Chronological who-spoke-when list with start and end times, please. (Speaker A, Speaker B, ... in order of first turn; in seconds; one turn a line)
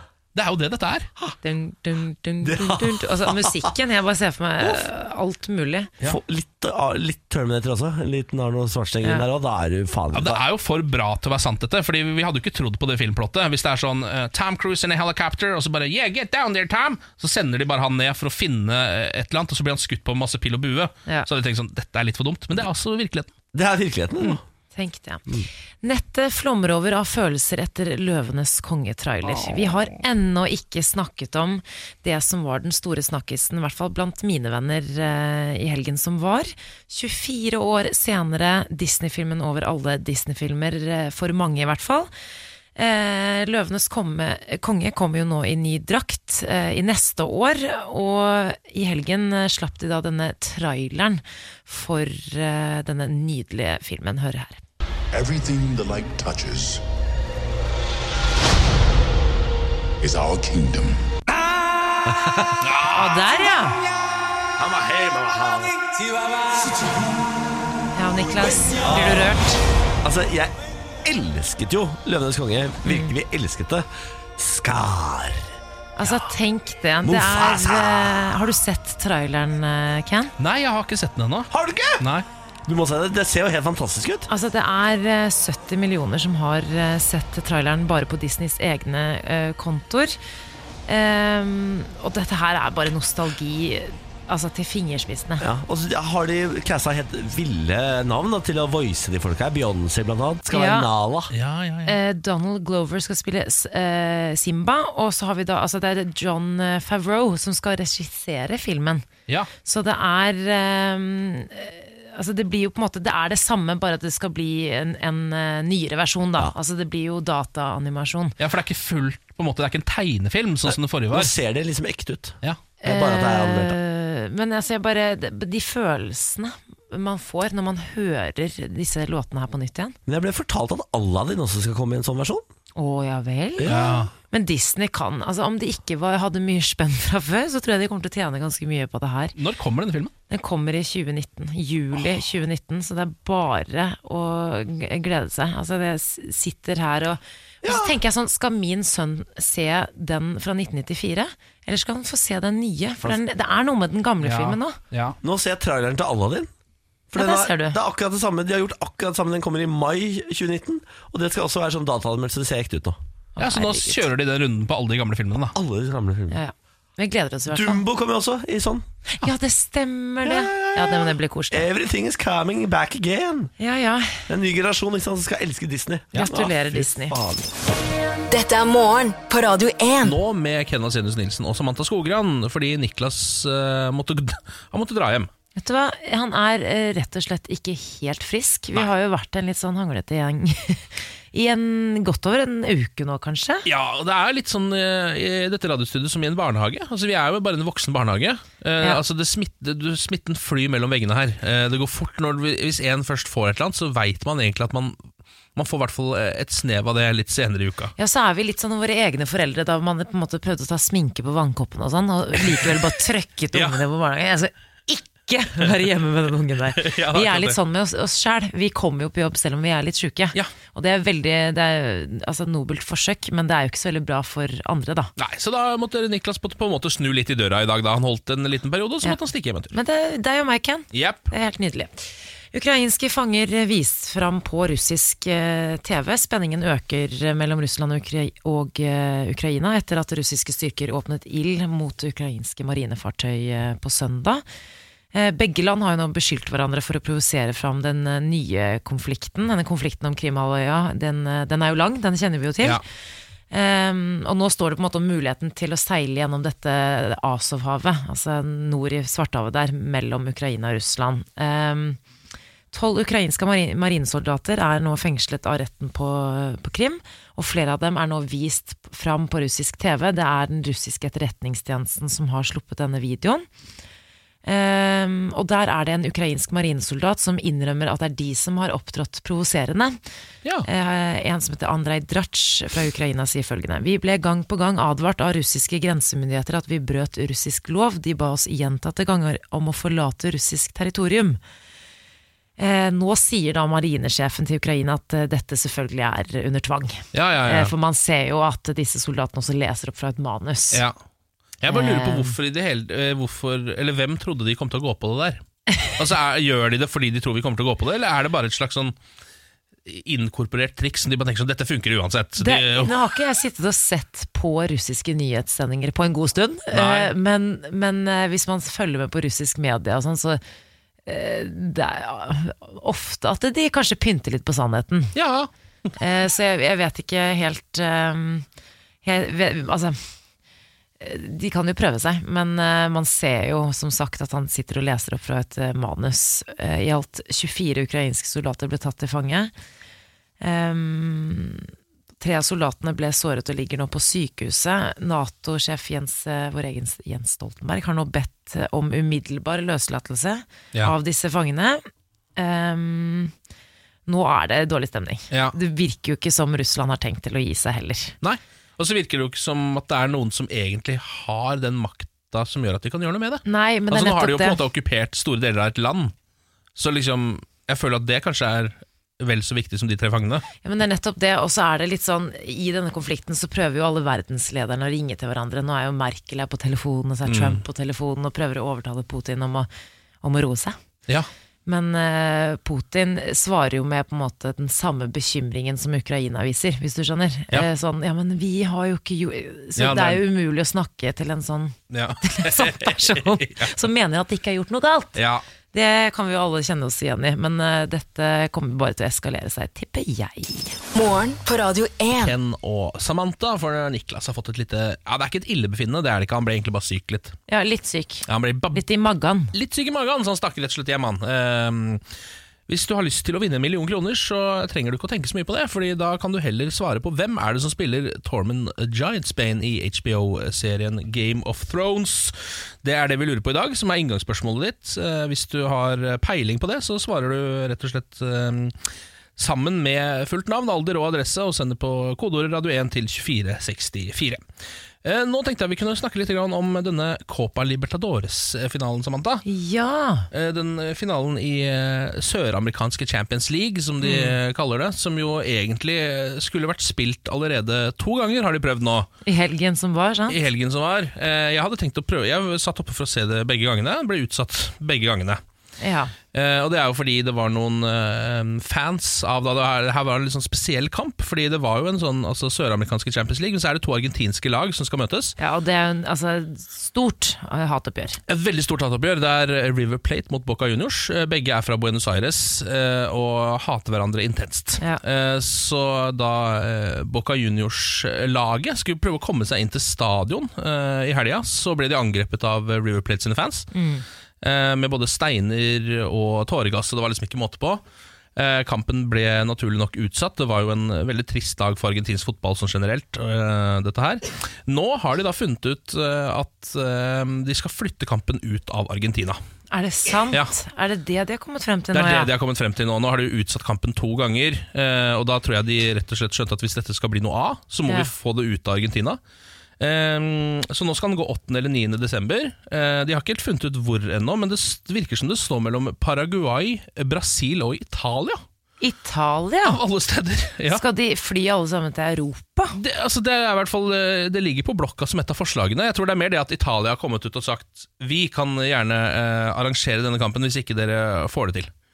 Speaker A: 0.3-1.1
Speaker B: 1.4-5.9
Speaker C: 2.4-3.7
Speaker C: 4.6-4.8
Speaker C: 6.0-10.4
Speaker A: 10.1-23.3
Speaker C: 23.5-24.4
Speaker B: 24.2-42.1
Speaker B: 42.8-54.6
Speaker D: 55.1-56.8
Speaker D: 60.0-61.0
Speaker C: 62.1-62.5
Speaker A: 62.6-63.2
Speaker B: 62.9-63.8
Speaker C: 64.6-65.9
Speaker B: 68.0-69.6
Speaker C: 68.6-69.3
Speaker C: 70.0-70.5
Speaker C: 71.0-75.5
Speaker B: 72.8-73.1
Speaker B: 76.0-80.3
Speaker C: 77.0-78.5
Speaker A: 80.4-82.3
Speaker C: 81.5-82.0
Speaker C: 82.7-84.3
Speaker B: 84.3-90.2
Speaker B: 90.9-95.5
Speaker C: 95.4-101.3
Speaker B: 100.5-100.9
Speaker A: 101.3-102.0
Speaker B: 101.9-109.0
Speaker B: 109.7-118.4
Speaker A: 118.4-121.3
Speaker C: 121.1-123.8
Speaker B: 122.8-129.9
Speaker C: 130.1-132.5
Speaker B: 132.8-139.4
Speaker C: 133.6-134.0
Speaker A: 133.6-134.1
Speaker A: 139.4-140.1
Speaker B: 140.3-154.8
Speaker C: 147.6-148.0
Speaker A: 154.2-155.2
Speaker C: 155.2-156.5
Speaker C: 157.1-163.0
Speaker B: 157.2-157.8
Speaker B: 163.4-164.1
Speaker A: 163.4-165.5
Speaker C: 165.5-166.4
Speaker B: 166.3-167.8
Speaker C: 167.5-168.9
Speaker B: 169.2-171.7
Speaker C: 170.2-173.5
Speaker B: 173.6-174.2
Speaker C: 174.3-177.5
Speaker B: 176.2-177.2
Speaker E: 178.3-180.2
Speaker A: 180.0-185.3
Speaker B: 185.6-193.7
Speaker A: 193.7-205.0
Speaker A: 205.6-207.9
Speaker B: 208.0-225.1
Speaker A: 213.5-213.8
Speaker A: 216.7-217.6
Speaker A: 225.2-229.7
Speaker B: 229.7-244.4
Speaker A: 230.9-231.3
Speaker B: 245.1-252.8
Speaker B: 253.5-262.0
Speaker B: 262.7-273.5
Speaker B: 274.4-280.0
Speaker B: 280.7-291.4
Speaker B: 292.6-300.8
Speaker A: 297.1-297.7
Speaker A: 301.6-305.4
Speaker B: 301.7-302.4
Speaker A: 305.9-309.0
Speaker A: 309.9-312.9
Speaker B: 312.4-320.4
Speaker A: 316.7-317.1
Speaker B: 321.1-325.1
Speaker A: 325.1-325.5
Speaker B: 326.0-328.5
Speaker B: 329.0-330.0
Speaker B: 331.0-339.5
Speaker B: 340.4-351.8
Speaker B: 352.4-353.3
Speaker B: 354.1-358.1
Speaker A: 358.2-366.1
Speaker B: 363.4-364.6
Speaker A: 366.8-370.5
Speaker B: 370.6-379.7
Speaker A: 377.3-377.6
Speaker B: 380.2-380.8
Speaker B: 381.7-395.2
Speaker A: 389.8-390.2
Speaker A: 391.9-393.7
Speaker A: 395.2-395.4
Speaker B: 395.7-400.8
Speaker E: 400.9-402.3
Speaker A: 402.2-407.4
Speaker B: 407.5-409.5
Speaker A: 408.3-408.8
Speaker A: 409.5-412.0
Speaker A: 412.7-428.8
Speaker A: 429.4-434.4
Speaker A: 435.0-439.4
Speaker B: 439.4-440.3
Speaker A: 440.3-449.1
Speaker B: 444.0-444.4
Speaker B: 449.2-450.4
Speaker A: 450.3-455.4
Speaker B: 455.8-456.1
Speaker A: 456.3-465.4
Speaker B: 465.4-468.2
Speaker A: 468.3-483.7
Speaker B: 483.7-484.1
Speaker A: 484.4-487.8
Speaker A: 488.4-499.4
Speaker B: 499.7-502.3
Speaker A: 501.9-509.2
Speaker A: 509.8-518.4
Speaker B: 518.8-519.8
Speaker A: 519.6-520.8
Speaker B: 520.7-522.8
Speaker A: 522.7-531.7